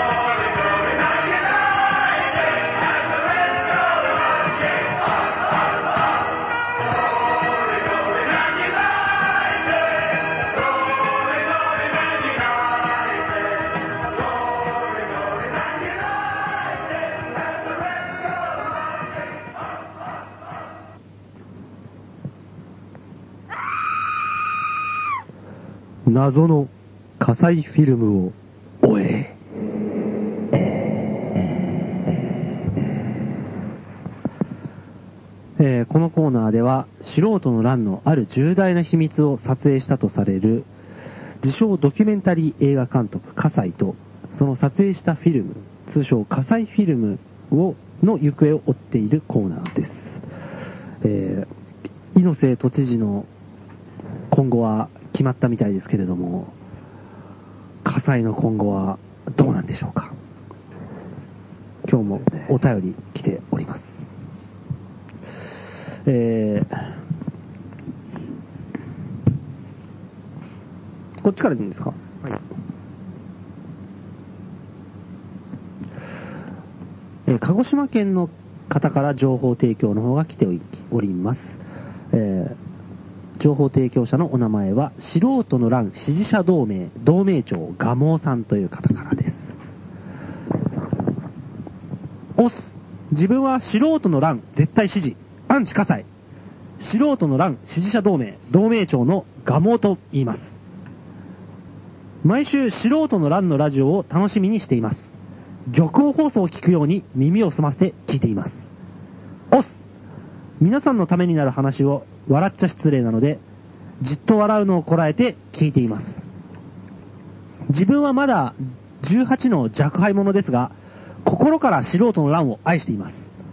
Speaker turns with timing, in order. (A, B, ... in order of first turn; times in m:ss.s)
0:26.1-0:29.4 A
0:35.6-0:40.7 A
0:41.4-0:50.2 A
0:51.0-0:51.5 A
0:52.2-0:53.3 A
0:54.3-0:56.6 A
0:57.8-1:00.2 A
1:01.8-1:04.1 A
1:06.1-1:06.9 A
1:11.2-1:12.0 A
1:17.3-1:21.6 A
1:22.1-1:22.6 A
1:23.4-1:29.6 A
1:32.4-1:36.1 A
1:36.8-1:40.6 A
1:42.2-1:45.2 A
1:45.7-1:48.7 A
1:49.5-1:49.9 A
1:50.6-1:53.4 A
1:54.0-1:56.3 A
1:57.7-2:03.3 A